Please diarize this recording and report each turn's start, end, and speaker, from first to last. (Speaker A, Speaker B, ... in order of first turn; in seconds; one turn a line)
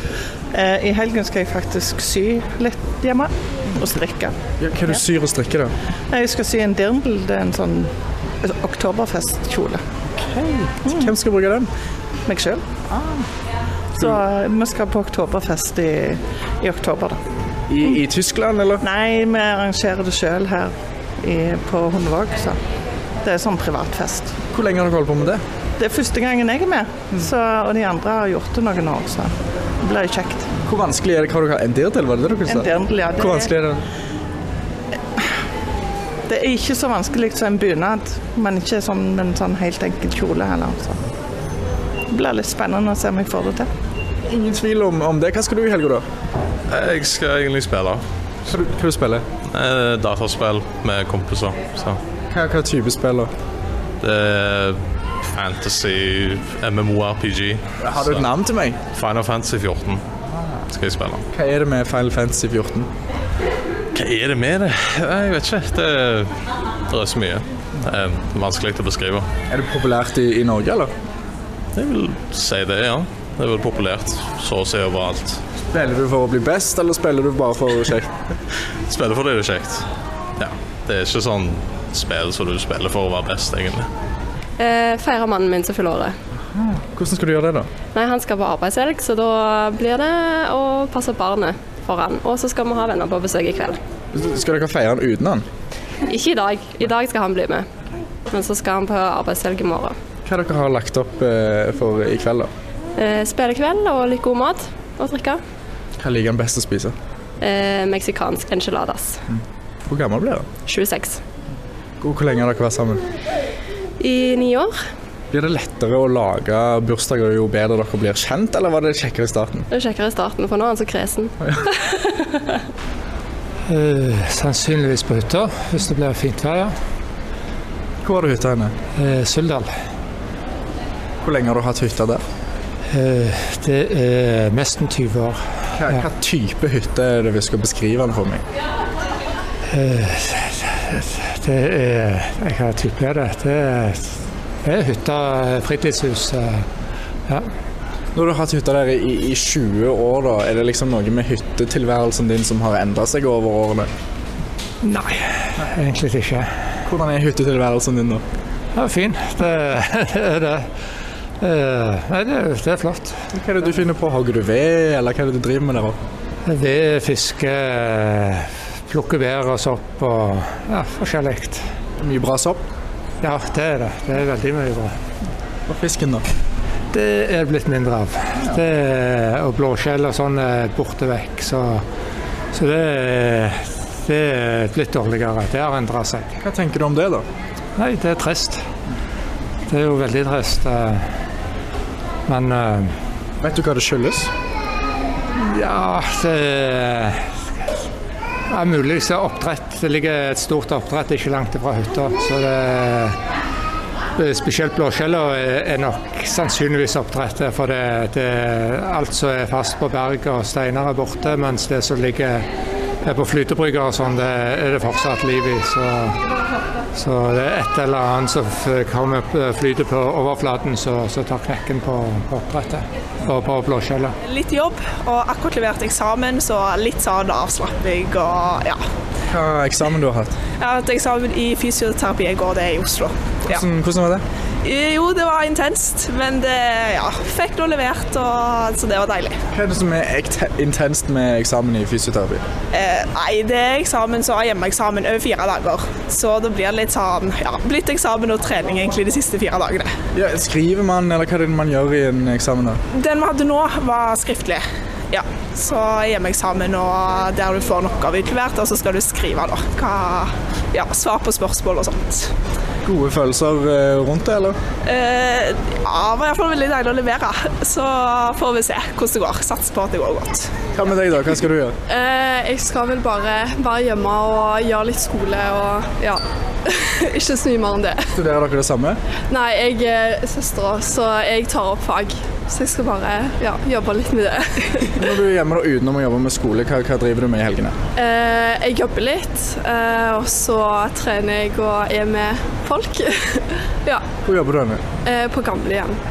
Speaker A: 0.5-4.3
Speaker B: 4.6-5.7
Speaker A: 6.1-7.9
Speaker A: 8.4-9.8
Speaker B: 10.2-11.7
Speaker A: 12.3-12.6
Speaker B: 12.9-13.2
Speaker A: 14.0-17.2
Speaker B: 17.7-18.8
Speaker A: 18.8-22.6
Speaker A: 23.2-24.3
Speaker B: 24.5-25.4
Speaker A: 25.8-30.5
Speaker B: 30.6-33.8
Speaker A: 32.5-33.5
Speaker A: 36.3-41.0
Speaker A: 42.1-43.7
Speaker B: 44.3-46.0
Speaker C: 46.7-48.0
Speaker B: 48.5-49.2
Speaker C: 49.5-52.0
Speaker B: 52.3-53.3
Speaker C: 54.0-54.8
Speaker C: 55.3-58.3
Speaker B: 57.8-58.8
Speaker C: 58.9-60.0
Speaker C: 60.7-61.2
Speaker B: 61.3-62.9
Speaker C: 63.9-66.3
Speaker C: 66.9-69.3
Speaker B: 69.5-70.9
Speaker C: 71.8-75.4
Speaker B: 75.7-78.1
Speaker C: 78.9-79.8
Speaker C: 80.4-83.9
Speaker D: 84.6-86.1
Speaker B: 86.5-87.7
Speaker D: 87.9-93.8
Speaker B: 94.1-95.4
Speaker D: 96.1-97.7
Speaker D: 98.3-99.9
Speaker B: 100.2-102.5
Speaker D: 103.0-105.4
Speaker B: 106.0-106.9
Speaker D: 107.4-109.2
Speaker B: 109.3-110.5
Speaker D: 110.7-111.2
Speaker B: 112.0-113.0
Speaker D: 114.0-114.7
Speaker B: 115.3-119.7
Speaker D: 119.7-122.4
Speaker E: 123.7-126.7
Speaker B: 128.0-128.7
Speaker E: 128.9-129.7
Speaker B: 131.2-132.2
Speaker E: 132.9-135.4
Speaker B: 135.7-138.4
Speaker E: 139.7-146.6
Speaker B: 148.1-153.9
Speaker E: 154.8-156.5
Speaker B: 156.8-158.2
Speaker E: 158.8-160.7
Speaker E: 161.4-163.2
Speaker B: 163.3-166.0
Speaker E: 166.4-171.6
Speaker B: 172.0-172.6
Speaker E: 173.2-174.9
Speaker B: 175.7-176.2
Speaker E: 176.9-181.8
Speaker E: 182.5-186.3
Speaker B: 186.4-187.2
Speaker E: 187.8-188.6
Speaker E: 189.7-191.1
Speaker E: 192.3-192.9
Speaker B: 193.4-194.3
Speaker E: 195.3-197.3
Speaker E: 198.5-203.2
Speaker E: 204.2-212.4
Speaker E: 213.0-216.2
Speaker E: 216.9-224.2
Speaker F: 224.2-228.8
Speaker B: 229.3-230.3
Speaker F: 230.6-233.6
Speaker B: 233.4-234.2
Speaker F: 234.6-239.4
Speaker B: 239.5-242.4
Speaker F: 242.7-249.9
Speaker B: 250.1-252.8
Speaker F: 252.9-262.3
Speaker B: 262.8-264.6
Speaker F: 264.8-270.5
Speaker B: 270.7-271.8
Speaker G: 271.9-278.0
Speaker B: 278.1-279.0
Speaker G: 279.3-285.0
Speaker B: 284.9-287.7
Speaker G: 287.9-294.0
Speaker B: 294.2-294.8
Speaker G: 295.0-296.0